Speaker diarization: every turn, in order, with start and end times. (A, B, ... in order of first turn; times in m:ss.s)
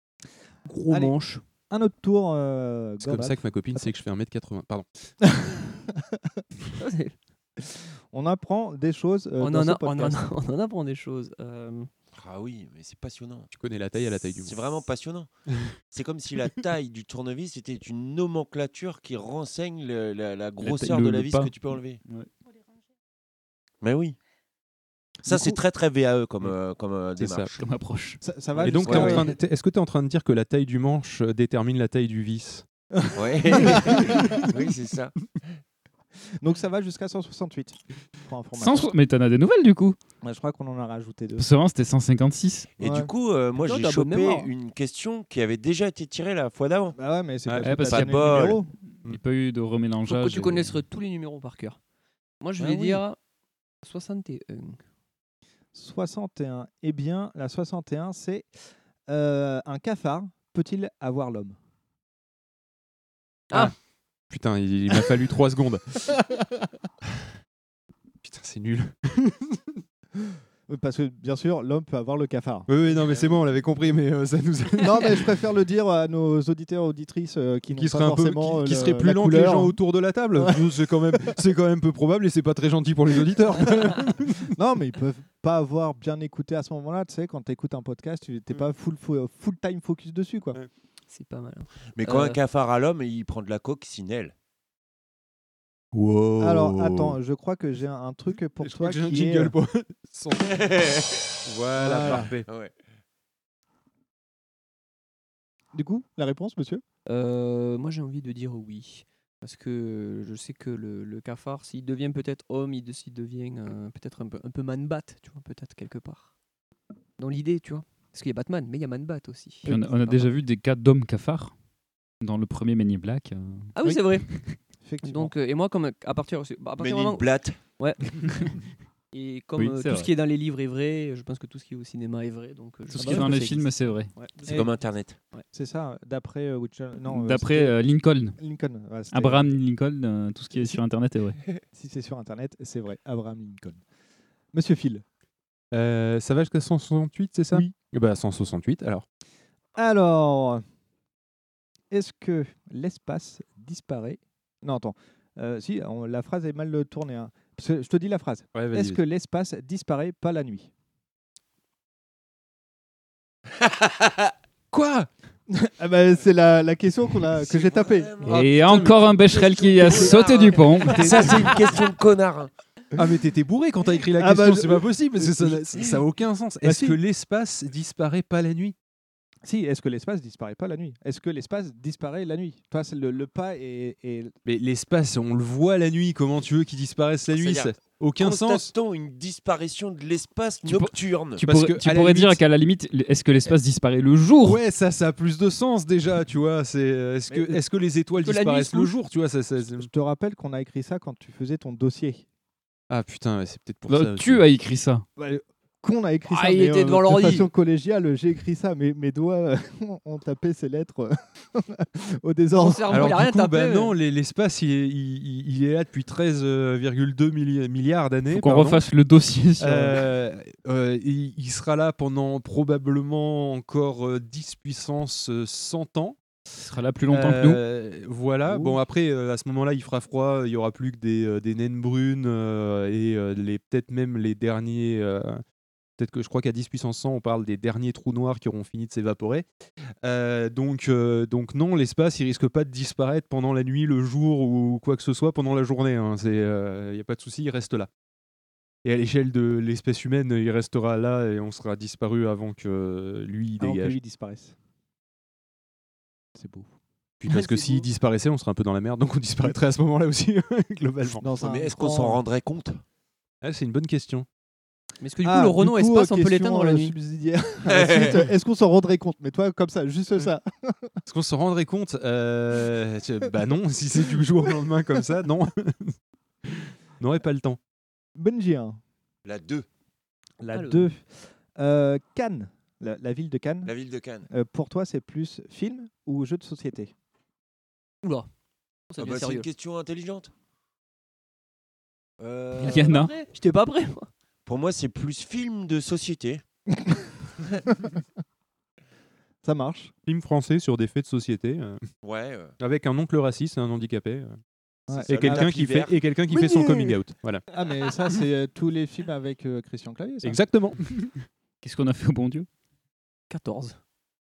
0:00.7-0:01.4 A
0:00.9-0:01.2 B
0:01.7-0:03.9 B
0:03.0-0:04.8 C
0:05.2-0:06.4 B
0:06.8-0:07.1 A
0:07.6-0:10.2 B
0:09.4-0:11.9 A
0:12.1-0:13.5 D
0:13.5-0:14.8 C
0:14.1-0:15.3 D
0:15.9-0:22.0 D
0:20.6-0:21.5 E
0:23.8-0:24.2 D
0:25.2-0:27.7 D
0:27.2-0:27.5 C
0:27.6-0:28.2 E
0:28.2-0:29.4 B
0:28.6-0:32.6 C
0:28.6-0:29.3 D
0:32.9-0:34.4 B
0:33.1-0:35.4 D
0:36.4-0:38.9 B
0:38.6-0:40.0 E
0:40.2-0:41.5 B
0:41.4-0:42.7 E
0:42.8-0:47.0 D
0:42.8-0:43.1 B
0:43.6-0:44.5 A
0:46.9-0:48.7 B
0:47.4-0:49.2 C
0:47.6-0:48.5 E
0:47.9-0:48.3 D
0:49.0-0:50.7 E
0:50.1-0:51.8 A
0:52.4-0:53.2 A
0:52.6-0:53.0 D
0:53.8-0:54.8 A
0:55.7-0:58.5 B
0:59.1-1:01.6 B
1:04.3-1:06.1 C
1:08.2-1:09.6 C
1:10.7-1:12.7 B
1:12.7-1:15.3 C
1:14.8-1:19.8 B
1:17.7-1:24.5 C
1:20.3-1:21.4 B
1:24.4-1:30.6 B
1:31.1-1:32.4 A
1:31.9-1:34.3 D
1:35.9-1:37.2 C
1:36.4-1:39.6 B
1:38.6-1:40.8 C
1:40.5-1:41.2 D
1:41.4-1:42.5 C
1:41.7-1:42.3 B
1:42.0-1:42.7 D
1:45.7-1:46.8 B
1:47.0-1:56.3 A
1:57.2-2:00.2 A
1:59.6-2:01.5 E
2:02.2-2:04.2 E
2:03.8-2:04.3 A
2:04.8-2:05.3 B
2:05.0-2:08.6 A
2:06.8-2:07.6 D
2:09.1-2:14.7 A
2:09.6-2:10.1 E
2:12.9-2:14.1 E
2:13.0-2:13.3 B
2:14.5-2:15.2 D
2:15.5-2:17.8 B
2:17.1-2:18.4 E
2:18.4-2:19.5 B
2:19.1-2:21.4 E
2:20.5-2:20.8 B
2:21.7-2:23.8 B
2:24.5-2:25.0 B
2:25.7-2:29.0 C
2:29.7-2:30.6 B
2:31.9-2:40.7 B
2:38.5-2:39.0 C
2:43.6-2:44.2 D
2:44.7-2:45.1 C
2:45.5-2:48.2 B
2:47.4-2:52.5 D
2:48.2-2:51.3 E
2:48.6-2:48.9 C
2:50.9-2:51.5 C
2:52.9-2:58.7 C
2:54.2-2:56.0 B
2:56.6-2:57.0 B
2:59.4-3:04.3 B
3:04.4-3:08.7 C
3:07.3-3:11.4 D
3:10.6-3:14.6 E
3:11.4-3:12.4 C
3:14.4-3:19.9 C
3:17.3-3:17.6 B
3:18.2-3:18.9 A
3:19.6-3:22.2 B
3:22.9-3:24.4 C
3:23.9-3:25.0 E
3:25.2-3:32.9 B
3:26.3-3:27.5 A
3:32.5-3:33.9 A
3:32.9-3:38.8 C
3:38.3-3:40.0 E
3:39.6-3:46.2 C
3:46.6-3:47.6 E
3:47.1-3:55.4 C
3:56.0-3:59.4 C
4:00.0-4:07.9 C
4:08.8-4:14.0 C
4:13.6-4:14.6 B
4:16.4-4:16.7 B
4:17.2-4:21.2 C
4:21.2-4:22.2 B
4:21.4-4:22.8 D
4:23.4-4:24.2 C
4:25.0-4:26.9 A
4:25.2-4:31.0 B
4:27.7-4:28.2 D
4:31.0-4:35.9 C
4:36.4-4:37.6 C
4:38.2-4:38.8 B
4:39.2-4:39.7 D
4:40.4-4:43.7 B
4:40.5-4:40.8 A
4:43.6-4:44.3 D
4:44.3-4:46.9 B
4:48.0-4:48.3 A
4:48.9-4:49.5 A
4:49.0-4:50.3 D
4:52.2-4:53.0 D
4:52.6-4:53.1 E
4:52.6-4:54.1 A
4:54.4-4:56.4 D
4:59.4-4:59.9 B
5:00.0-5:01.8 C
5:02.0-5:02.5 D
5:02.6-5:04.4 C
5:04.9-5:05.6 B
5:04.9-5:06.0 D
5:05.1-5:07.4 C
5:07.5-5:10.4 B
5:10.2-5:11.0 C
5:11.6-5:12.5 E
5:13.3-5:13.8 A